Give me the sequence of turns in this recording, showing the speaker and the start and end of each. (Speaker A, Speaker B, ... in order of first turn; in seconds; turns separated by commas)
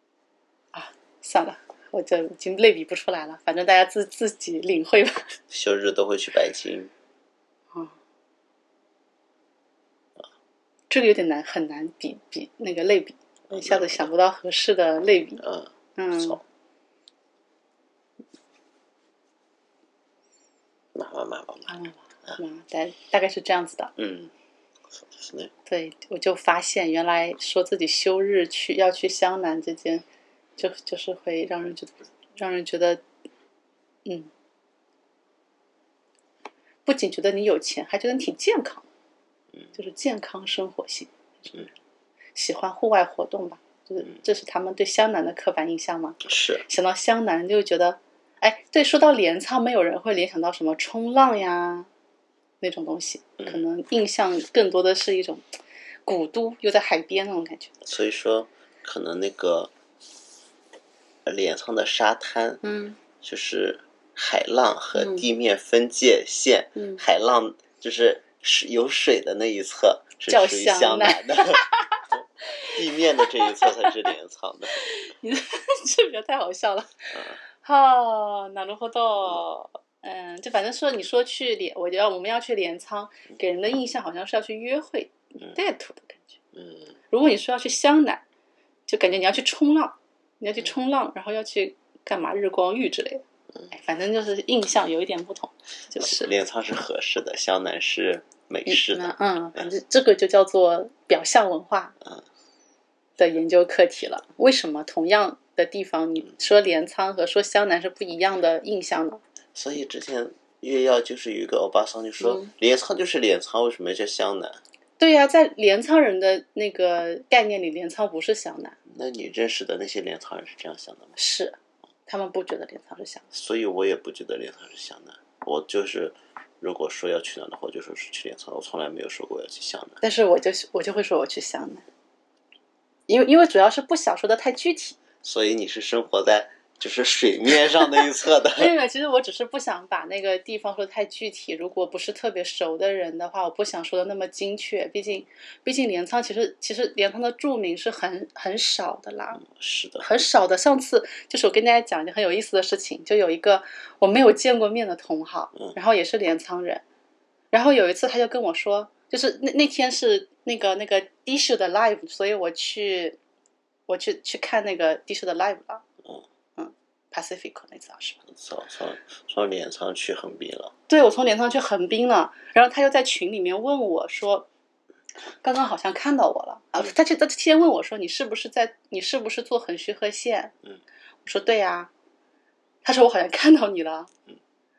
Speaker A: 0.7-5.2, Speaker B: 5.5-6.9, Speaker A: 10.9-15.4, Speaker B: 13.5-14.1, Speaker B: 15.4-16.4, Speaker A: 16.0-16.4, Speaker B: 20.9-21.7, Speaker A: 21.7-23.9, Speaker B: 23.9-24.3, Speaker B: 24.9-25.5, Speaker A: 25.7-30.0, Speaker A: 30.6-33.0, Speaker A: 36.9-38.9, Speaker A: 39.7-41.7, Speaker A: 42.3-51.9, Speaker B: 46.2-46.6, Speaker A: 52.6-55.4, Speaker A: 56.0-57.7, Speaker B: 57.8-59.7, Speaker B: 61.2-62.6, Speaker A: 62.6-63.0, Speaker B: 63.2-74.8, Speaker A: 64.9-65.2, Speaker A: 66.8-67.0, Speaker A: 70.3-74.0, Speaker A: 74.7-86.4, Speaker B: 86.5-86.9, Speaker A: 87.1-88.2, Speaker A: 88.9-96.3, Speaker B: 96.0-99.7, Speaker A: 98.7-101.9, Speaker A: 103.2-109.2, Speaker B: 109.5-114.6, Speaker A: 112.2-112.5, Speaker A: 115.0-118.8, Speaker B: 118.9-121.2, Speaker A: 121.2-123.2, Speaker B: 123.3-130.0, Speaker A: 130.0-131.8, Speaker A: 133.1-135.0, Speaker B: 135.2-138.7, Speaker A: 138.5-149.4, Speaker B: 149.4-150.1, Speaker A: 150.0-156.8, Speaker A: 157.5-163.2, Speaker A: 163.9-165.8, Speaker A: 166.6-168.2, Speaker B: 168.3-170.7, Speaker A: 170.9-174.5, Speaker A: 175.3-180.5, Speaker A: 181.2-181.9, Speaker A: 182.8-184.1